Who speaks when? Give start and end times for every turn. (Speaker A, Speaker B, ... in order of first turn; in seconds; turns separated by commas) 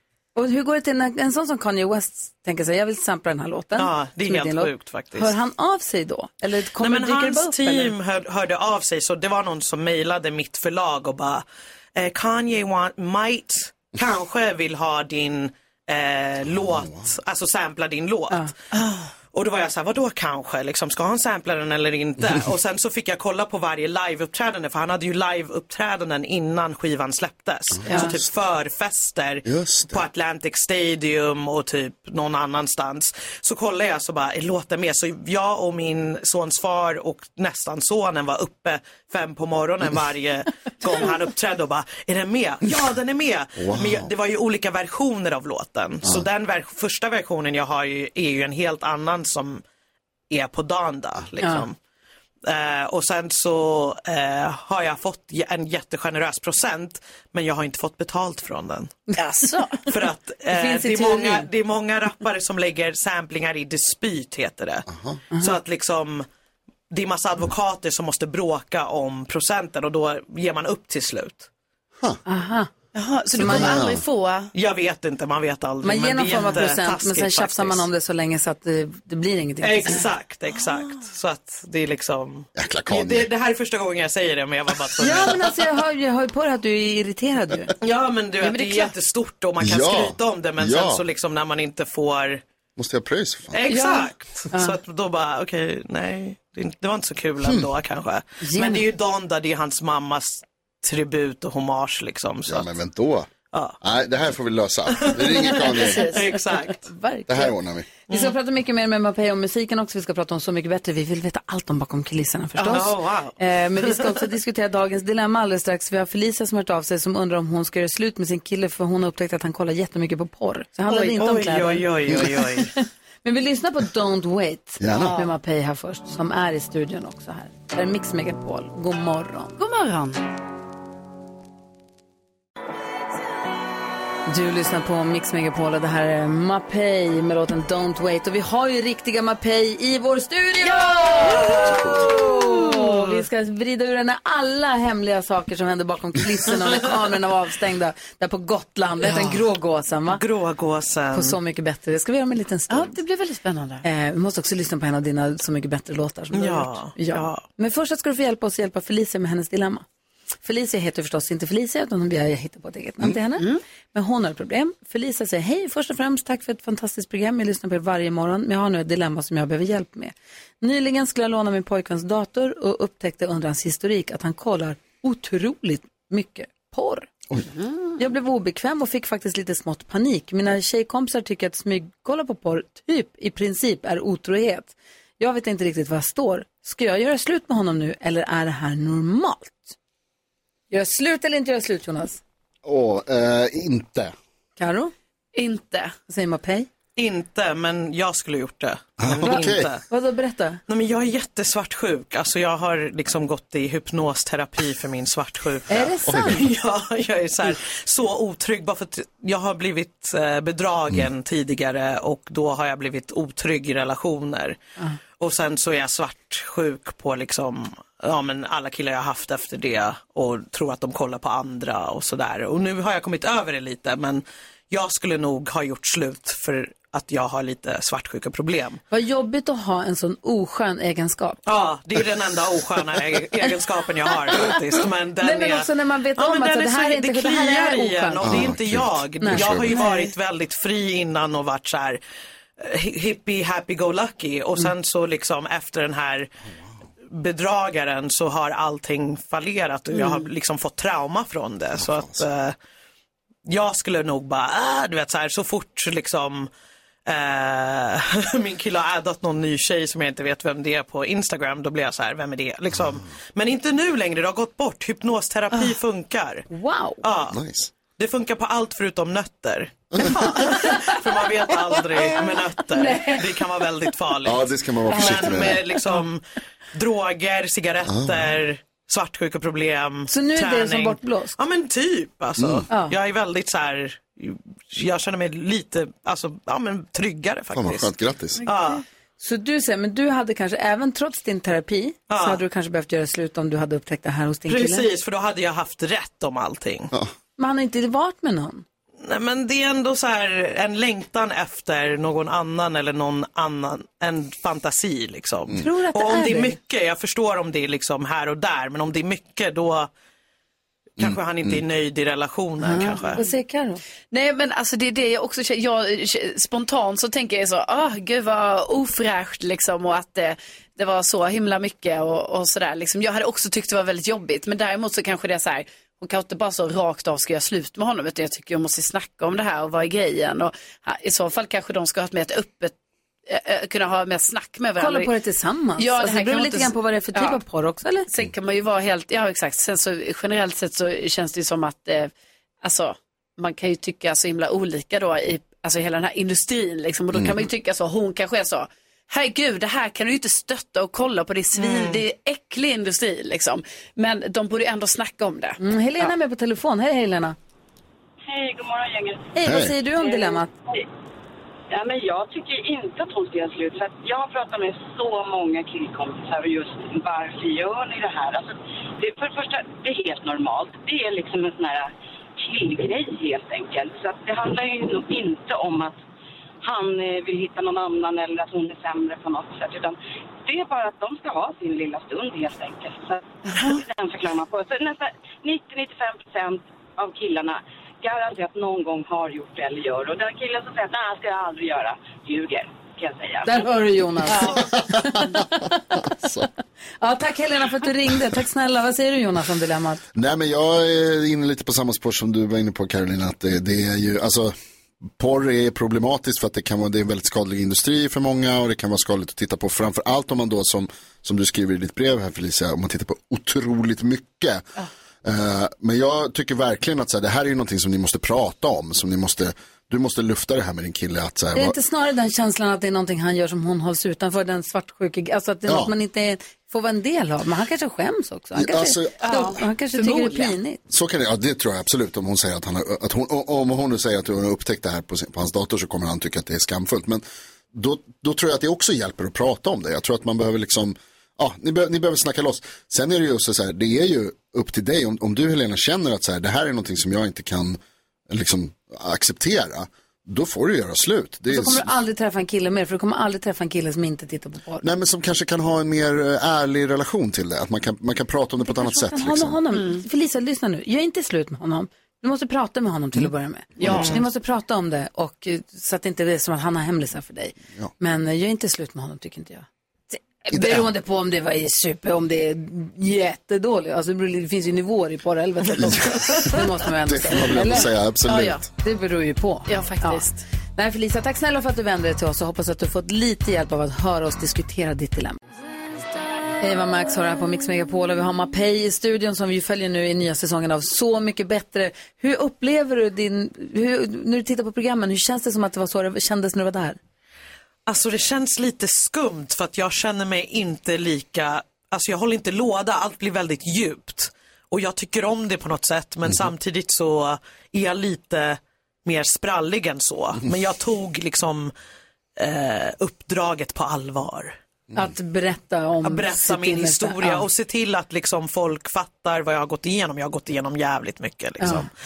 Speaker A: 0.3-7.9, Speaker B: 3.7-5.3, Speaker B: 6.8-18.5, Speaker C: 16.4-17.1, Speaker D: 18.7-19.1, Speaker B: 19.3-49.6, Speaker C: 27.7-28.2, Speaker A: 27.9-28.1, Speaker C: 29.4-30.0, Speaker C: 43.6-44.1, Speaker B: 50.3-51.8, Speaker A: 51.4-51.6, Speaker B: 52.4-59.0, Speaker D: 59.1-59.8, Speaker B: 59.9-64.8, Speaker A: 60.5-61.5, Speaker C: 64.9-65.2, Speaker B: 65.4-66.2, Speaker B: 66.9-71.5, Speaker A: 72.2-72.7, Speaker D: 72.9-74.5, Speaker A: 73.4-73.8, Speaker C: 73.4-74.0, Speaker B: 74.5-77.9, Speaker A: 75.8-80.0, Speaker B: 79.6-85.5, Speaker C: 82.5-83.3, Speaker A: 85.0-87.7, Speaker B: 87.8-92.4, Speaker D: 88.4-88.9, Speaker C: 89.6-91.0, Speaker C: 92.8-93.6, Speaker B: 93.5-102.7, Speaker D: 93.7-94.1, Speaker A: 98.4-98.8, Speaker C: 102.5-103.3, Speaker B: 103.5-103.8, Speaker C: 103.8-106.0, Speaker B: 104.9-106.9, Speaker D: 105.5-106.3, Speaker A: 106.8-107.5, Speaker C: 107.3-107.9, Speaker A: 108.1-122.7, Speaker B: 108.1-108.3, Speaker B: 112.6-114.2, Speaker B: 120.9-122.7, Speaker A: 123.2-129.6, Speaker C: 124.8-125.1, Speaker D: 124.9-125.3, Speaker D: 129.6-130.2, Speaker A: 134.3-150.2, Speaker D: 140.6-142.8, Speaker B: 141.4-141.9, Speaker C: 141.7-142.1, Speaker D: 149.0-149.4, Speaker B: 150.1-151.4, Speaker A: 151.1-153.0, Speaker D: 152.7-153.8, Speaker A: 153.8-159.8, Speaker B: 156.3-157.4, Speaker A: 160.4-177.1, Speaker D: 163.4-163.6, Speaker D: 177.4-178.0, Speaker A: 178.0-189.7, Speaker A: 190.7-192.2, Speaker C: 192.6-194.1, Speaker A: 194.6-194.9, Speaker D: 195.3-195.9, Speaker A: 196.1-196.7, Speaker B: 196.9-199.8, Speaker C: 199.0-199.7, Speaker A: 199.2-200.6, Speaker B: 200.7-214.6, Speaker A: 205.7-206.4, Speaker C: 206.0-206.4, Speaker B: 215.2-228.8, Speaker A: 228.9-231.4, Speaker B: 231.4-242.0, Speaker A: 235.2-238.6, Speaker C: 238.2-239.8, Speaker A: 239.2-239.9, Speaker B: 242.6-246.3, Speaker B: 247.1-252.6, Speaker D: 249.9-250.2, Speaker C: 251.8-252.2, Speaker B: 253.4-256.5, Speaker B: 257.1-266.5, Speaker A: 266.5-267.0, Speaker B: 267.0-267.4, Speaker C: 267.3-267.7, Speaker B: 267.9-276.2, Speaker C: 269.9-270.2, Speaker D: 272.8-273.2, Speaker C: 274.2-275.6, Speaker D: 274.9-275.2, Speaker B: 276.7-287.9, Speaker C: 277.9-278.4, Speaker A: 280.1-281.3, Speaker C: 282.4-282.6, Speaker A: 282.7-282.9, Speaker C: 287.5-288.4, Speaker B: 288.4-288.8, Speaker A: 289.2-294.9, Speaker B: 292.1-292.4, Speaker B: 294.5-296.9, Speaker A: 297.4-298.6, Speaker B: 299.0-309.9, Speaker A: 305.6-306.6, Speaker B: 311.0-313.2, Speaker C: 311.0-311.6, Speaker D: 312.7-313.2, Speaker A: 312.7-313.8, Speaker D: 314.1-332.7, Speaker D: 333.3-335.1, Speaker A: 334.8-338.1, Speaker D: 335.8-337.4, Speaker D: 338.1-342.1, Speaker D: 342.6-356.1, Speaker C: 347.1-347.4, Speaker B: 351.5-352.0, Speaker A: 355.6-357.4, Speaker E: 358.3-359.2, Speaker A: 359.3-360.5, Speaker C: 359.4-359.7, Speaker E: 360.0-360.8, Speaker E: 361.7-376.0, Speaker E: 376.6-393.6, Speaker A: 393.4-396.0, Speaker D: 394.3-394.6, Speaker A: 397.0-400.0, Speaker C: 400.1-404.5, Speaker C: 405.2-414.6, Speaker C: 415.2-421.7, Speaker A: 421.5-430.8, Speaker C: 425.7-425.9, Speaker C: 428.5-429.2, Speaker D: 429.2-430.5, Speaker C: 430.9-447.8, Speaker C: 448.3-451.9, Speaker A: 451.5-454.8, Speaker C: 454.8-459.6, Speaker A: 458.6-477.9, Speaker D: 459.7-460.0, Speaker C: 463.1-464.1, Speaker D: 463.8-464.2, Speaker B: 463.9-464.2, Speaker C: 470.5-470.9, Speaker C: 475.8-476.5, Speaker C: 477.0-478.6, Speaker D: 478.2-478.6, Speaker A: 478.8-480.2, Speaker D: 479.7-480.4, Speaker A: 480.8-485.4, Speaker A: 486.6-497.0, Speaker B: 497.9-511.7, Speaker B: 512.4-514.5, Speaker A: 514.9-517.4, Speaker B: 516.0-521.9, Speaker A: 521.6-521.9